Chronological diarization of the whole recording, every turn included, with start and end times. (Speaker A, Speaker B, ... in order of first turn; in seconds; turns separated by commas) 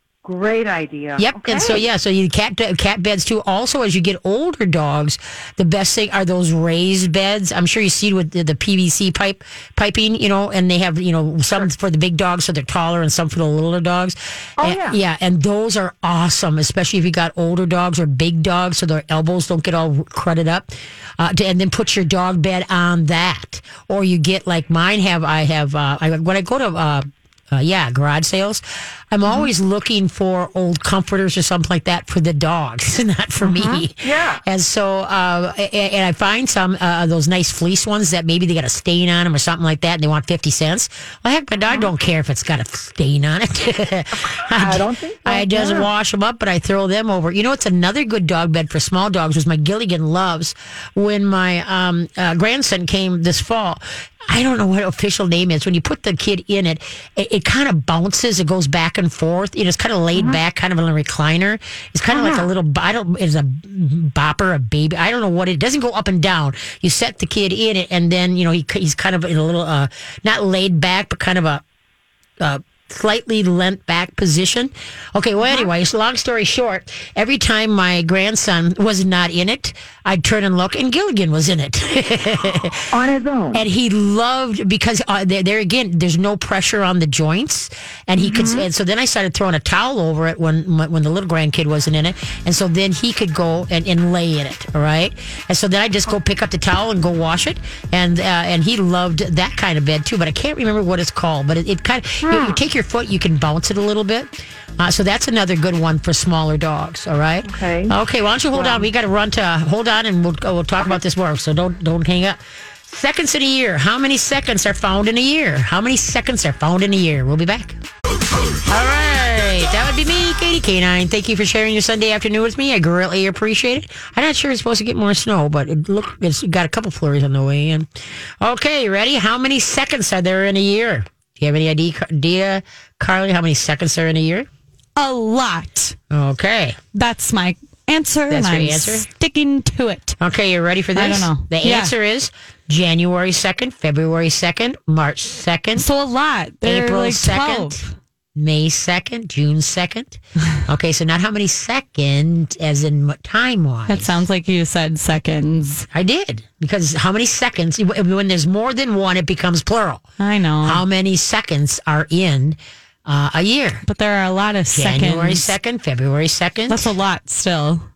Speaker A: 0.2-1.8, Speaker B: 1.2-71.6, Speaker A: 14.6-15.0, Speaker A: 29.2-29.5, Speaker A: 33.4-34.4, Speaker A: 44.5-45.9, Speaker A: 60.1-60.4, Speaker A: 62.1-62.5, Speaker B: 72.4-82.9, Speaker A: 75.4-75.7, Speaker A: 82.9-83.7, Speaker B: 83.5-117.8, Speaker A: 88.2-88.7, Speaker A: 102.2-102.6, Speaker A: 107.5-108.0, Speaker A: 108.5-108.9, Speaker B: 118.5-127.9, Speaker B: 128.4-134.5, Speaker C: 135.0-136.0, Speaker B: 136.1-136.8, Speaker C: 136.9-140.2, Speaker B: 138.3-139.1, Speaker B: 140.2-145.9, Speaker C: 141.0-141.9, Speaker C: 145.8-147.9, Speaker B: 146.6-147.8, Speaker B: 148.3-154.2, Speaker C: 153.9-155.9, Speaker B: 155.9-160.0, Speaker C: 160.2-160.8, Speaker B: 160.6-163.8, Speaker C: 163.9-165.5, Speaker B: 164.7-166.9, Speaker C: 166.7-167.9